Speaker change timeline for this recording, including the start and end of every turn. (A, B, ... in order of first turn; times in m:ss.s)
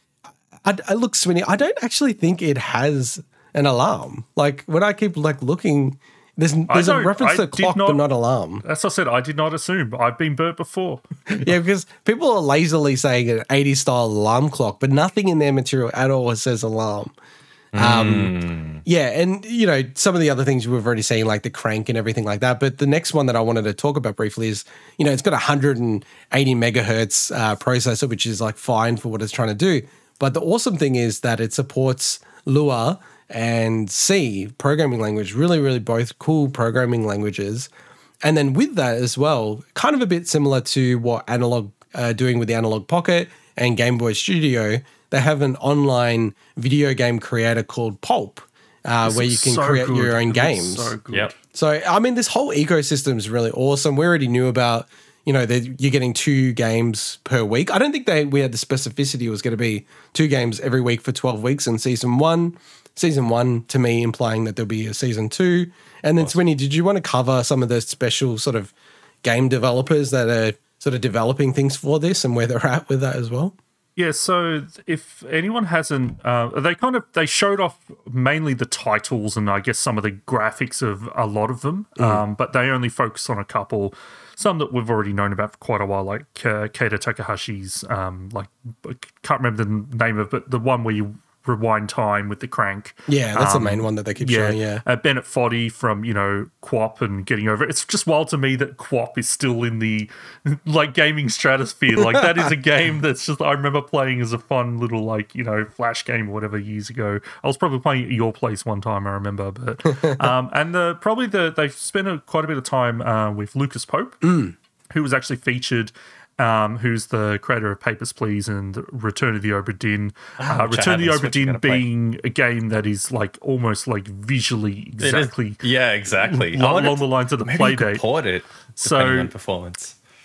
0:00.6-0:08.6 A
0:06.7-0:08.0 B
0:08.6-0:11.5 B
0:11.3-0:17.1 A
0:17.7-0:18.8 C
0:17.7-0:37.7 A
0:38.2-0:51.0 A
0:49.0-0:51.4 B
0:51.5-1:08.7 A
1:09.2-1:13.5 A
1:14.0-1:54.3 B
1:22.0-1:22.2 A
1:33.1-1:34.8 A
1:54.2-1:54.5 A
1:54.9-2:05.6 B
2:00.4-2:01.9 C
2:05.0-2:10.0 C
2:06.2-2:08.0 B
2:08.8-2:09.3 B